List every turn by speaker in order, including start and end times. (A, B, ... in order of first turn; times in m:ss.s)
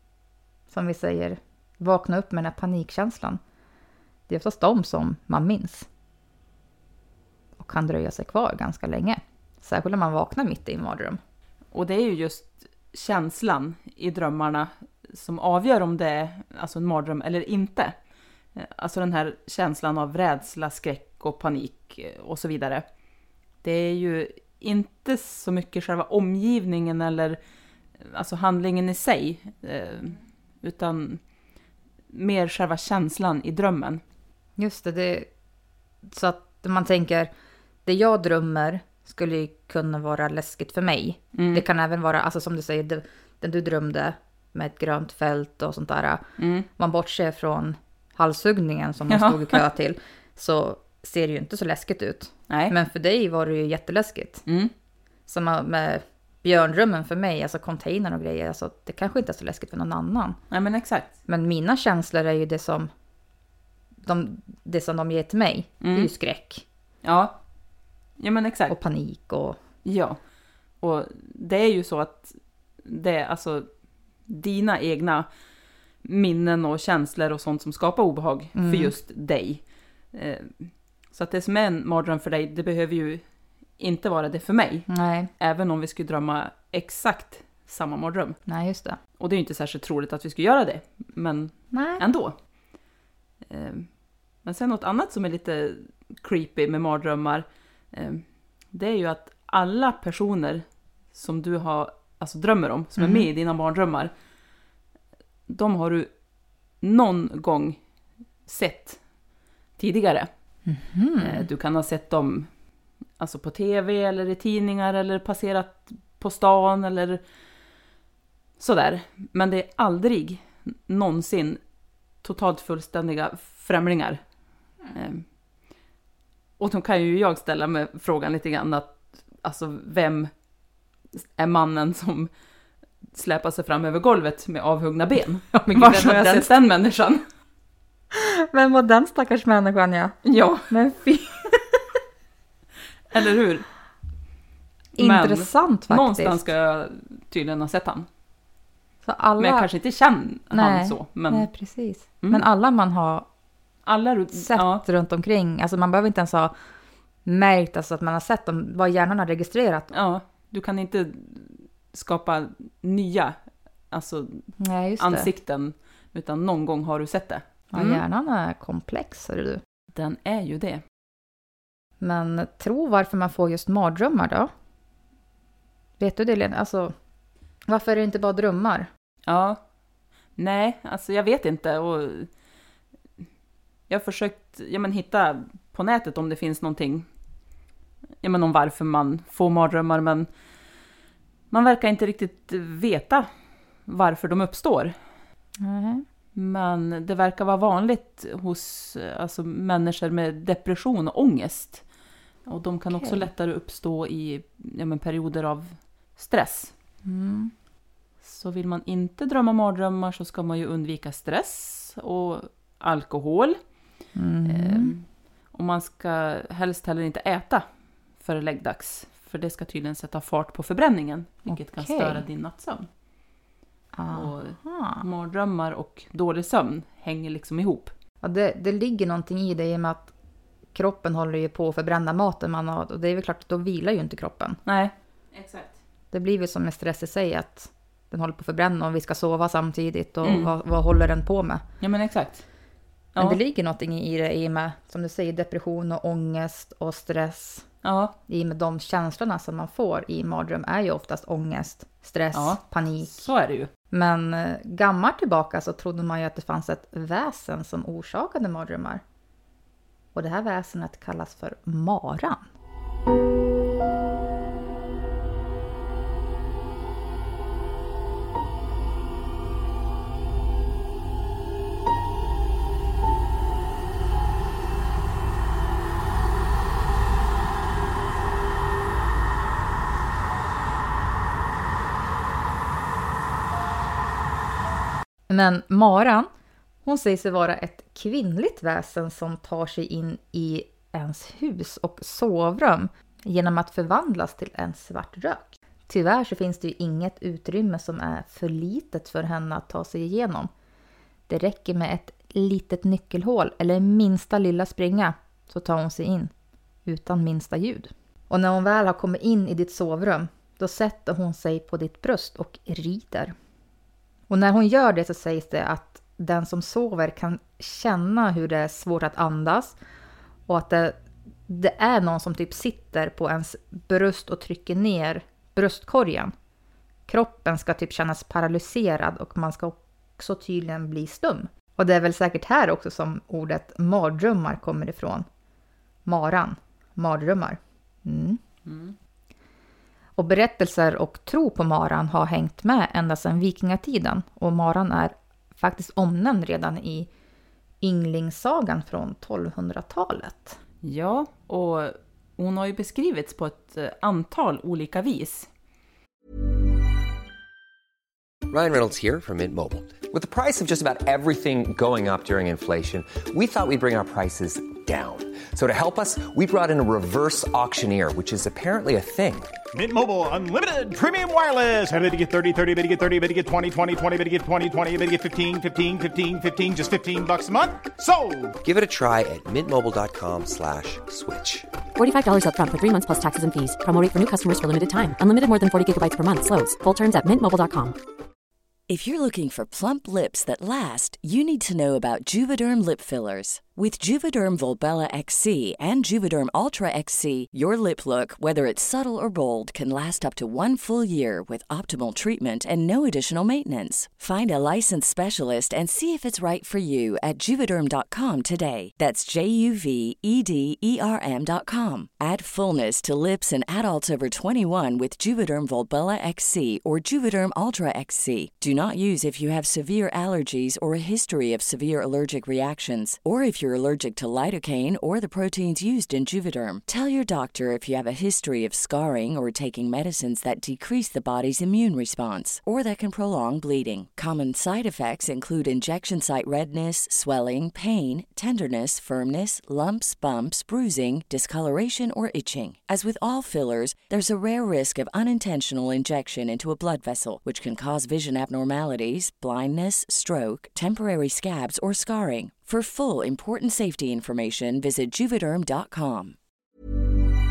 0:00.7-0:03.4 A
0:04.3-0:05.9 A
0:07.6-0:11.2 A
0:11.7-0:17.9 B
0:18.6-0:22.8 B
0:23.6-0:27.4 B
0:28.0-0:31.2 B
0:32.1-0:34.0 B
0:34.6-0:35.3 A
0:36.1-0:37.3 A
0:37.8-0:46.2 A
0:41.4-0:41.6 B
0:46.4-0:46.7 B
0:46.8-0:54.4 A
0:49.1-0:49.6 B
0:52.5-0:52.7 B
0:55.3-1:00.4 A
1:00.5-1:01.1 B
1:01.3-1:02.9 A
1:04.0-1:06.6 A
1:05.8-1:06.1 B
1:07.0-1:07.4 B
1:08.2-1:08.7 B
1:08.7-1:09.6 A
1:09.8-1:10.2 B
1:10.8-1:13.7 B
1:14.3-1:15.3 B
1:16.0-1:23.2 B
1:18.6-1:18.9 A
1:23.8-1:24.9 B
1:24.9-1:25.3 A
1:25.4-1:28.4 B
1:28.5-1:29.0 A
1:29.2-1:32.4 B
1:31.7-1:32.0 A
1:33.4-1:33.9 B
1:34.4-1:44.1 B
1:43.0-1:43.3 A
1:45.5-1:46.1 B
1:46.8-1:47.8 B
1:48.5-1:49.0 B
1:49.8-1:50.3 B
1:50.6-1:51.5 A
1:51.2-1:52.5 B
1:53.2-1:57.2 B
1:58.6-2:01.6 B
2:02.2-2:04.2 B
2:04.9-2:05.2 B
2:06.6-2:10.3 B
2:11.2-2:12.3 B
2:13.1-2:17.2 B
2:15.5-2:16.5 A
2:18.1-2:20.1 A
2:20.2-2:20.7 B
2:20.7-2:21.8 A
2:23.1-2:23.7 B
2:25.0-2:26.4 A
2:25.0-2:28.1 B
2:29.0-2:29.7 A
2:29.4-2:31.5 B
2:30.5-2:33.3 A
2:33.8-2:34.8 B
2:34.3-2:36.5 A
2:37.2-2:39.9 A
2:39.9-2:43.3 B
2:43.9-2:48.0 B
2:44.6-2:45.3 A
2:47.7-2:49.6 A
2:49.9-2:50.8 B
2:52.0-2:54.5 A
2:56.0-2:56.9 A
2:57.7-2:58.9 A
2:59.2-2:59.6 B
3:00.4-3:02.3 B
3:03.9-3:07.1 B
3:08.2-3:10.3 B
3:11.5-3:13.3 B
3:13.8-3:14.9 B
3:15.6-3:16.0 A
3:16.4-3:21.8 B
3:22.4-3:26.7 B
3:22.9-3:23.2 A
3:27.0-3:27.5 A
3:28.2-3:33.6 B
3:34.2-3:34.9 A
3:34.4-3:37.6 B
3:38.2-3:42.9 B
3:41.5-3:42.2 A
3:43.9-3:45.0 A
3:44.1-3:47.9 B
3:48.2-3:50.1 A
3:50.7-3:54.6 A
3:54.6-3:55.8 B
3:56.1-4:01.6 A
4:00.2-4:00.5 B
4:01.8-4:02.4 B
4:03.1-4:03.4 B
4:03.2-4:07.7 A
4:07.8-4:08.1 B
4:08.3-4:13.2 A
4:12.3-4:13.7 B
4:13.9-4:19.0 A
4:20.1-4:22.4 A
4:45.3-4:46.3 A
4:46.8-5:00.5 A
5:01.3-5:06.3 A
5:06.8-5:13.3 A
5:14.3-5:19.8 A
5:20.5-5:26.3 A
5:27.1-5:35.2 A
5:36.0-5:38.4 A
5:38.6-5:38.9 B
5:40.2-5:47.1 A
5:47.8-5:50.6 A
5:50.8-5:55.5 B
5:58.5-6:09.5 C
6:09.7-6:18.5 D
6:18.6-6:21.7 C
6:22.0-6:28.0 E
6:28.9-7:36.4 F